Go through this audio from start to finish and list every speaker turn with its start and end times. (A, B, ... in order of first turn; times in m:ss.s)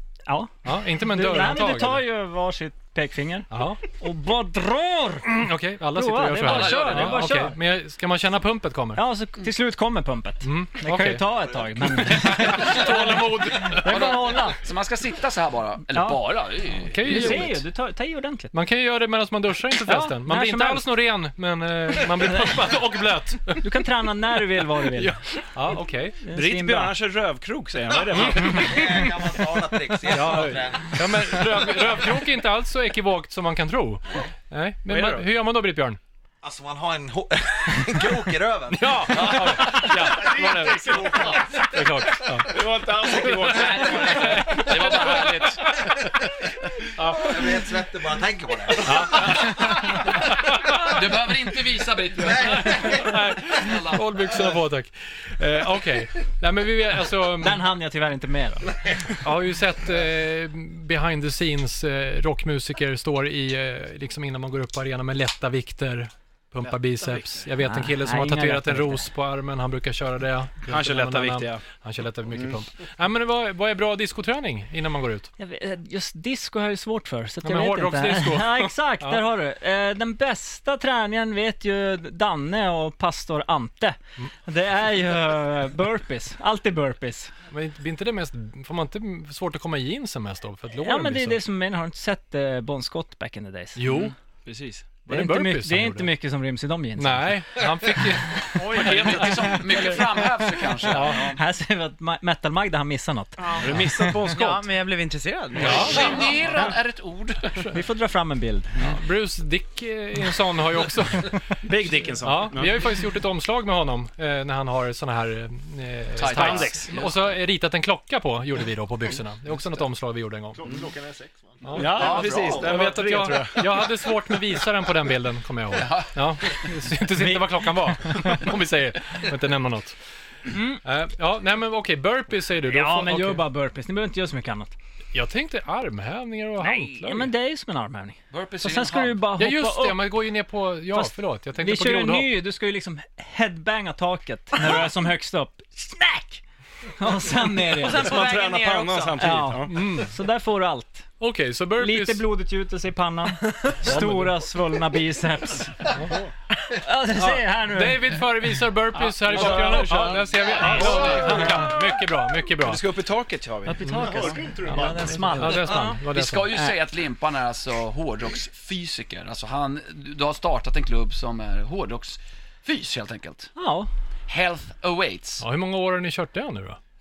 0:00.3-0:07.6 A
0:00.6-0:02.0 B
0:03.5-0:03.8 B
0:05.2-0:09.0 B
0:06.4-0:07.3 C
0:09.0-0:14.6 A
0:10.4-0:11.3 B
0:11.9-0:13.9 B
0:13.7-0:17.5 C
0:15.9-0:16.2 A
0:16.9-0:17.6 B
0:16.9-0:18.5 A
0:18.5-0:23.7 B
0:19.8-0:20.9 A
0:22.0-0:22.6 A
0:23.6-0:25.2 A
0:24.9-0:26.2 B
0:26.2-0:27.0 A
0:26.3-0:28.7 D
0:28.0-0:31.9 E
0:28.1-0:28.9 B
0:30.1-0:36.0 B
0:34.9-0:35.3 D
0:36.4-0:42.4 E
0:38.7-0:42.5 B
0:39.1-0:39.7 C
0:40.0-0:41.0 D
0:42.4-0:44.5 D
0:43.1-0:46.1 B
0:43.8-0:45.7 C
0:47.0-0:50.1 E
0:48.8-0:51.0 B
0:50.6-0:54.0 C
0:52.2-0:53.2 E
0:52.4-0:57.6 B
0:57.4-0:58.7 A
0:59.2-1:15.3 B
1:06.7-1:07.5 D
1:07.6-1:09.1 A
1:10.6-1:11.6 D
1:12.3-1:12.6 D
1:15.4-1:27.3 A
1:17.4-1:19.2 B
1:27.5-1:31.4 B
1:30.8-1:33.8 A
1:33.8-1:34.1 B
1:33.8-1:35.0 D
1:35.0-1:36.1 B
1:35.1-1:37.4 A
1:37.0-1:39.6 B
1:38.6-1:39.9 D
1:38.7-1:41.3 C
1:39.4-1:40.0 A
1:40.9-1:41.3 B
1:40.9-1:44.2 A
1:43.4-1:43.7 F
1:43.6-1:44.6 D
1:44.3-1:46.3 F
1:45.6-1:47.7 C
1:45.6-1:46.2 B
1:47.7-1:48.8 A
1:48.8-1:51.5 B
1:51.6-1:52.9 D
1:52.2-2:00.6 B
1:56.2-1:57.4 C
1:56.2-1:57.0 D
2:00.5-2:02.5 G
2:01.6-2:10.0 B
2:01.7-2:03.8 D
2:01.9-2:02.6 C
2:05.7-2:06.5 C
2:07.1-2:08.5 A
2:10.8-2:13.4 B
2:12.7-2:14.7 A
2:15.1-2:17.3 B
2:16.6-2:20.2 A
2:18.3-2:19.2 C
2:19.4-2:22.3 B
2:20.9-2:26.4 A
2:27.0-2:28.2 A
2:27.7-2:29.3 F
2:27.7-2:29.8 D
2:29.2-2:31.1 A
2:29.6-2:30.1 B
2:31.2-2:32.2 B
2:31.8-2:36.1 A
2:33.8-2:34.4 D
2:36.7-2:38.2 A
2:37.2-2:42.8 B
2:38.9-2:41.8 D
2:41.3-2:41.6 A
2:42.6-2:44.4 D
2:43.6-2:46.0 A
2:43.9-2:45.6 G
2:44.6-2:46.5 B
2:45.6-2:45.9 F
2:46.1-2:53.5 C
2:46.5-2:46.8 A
2:53.6-2:53.9 A
2:54.3-2:55.4 C
2:55.4-2:56.8 B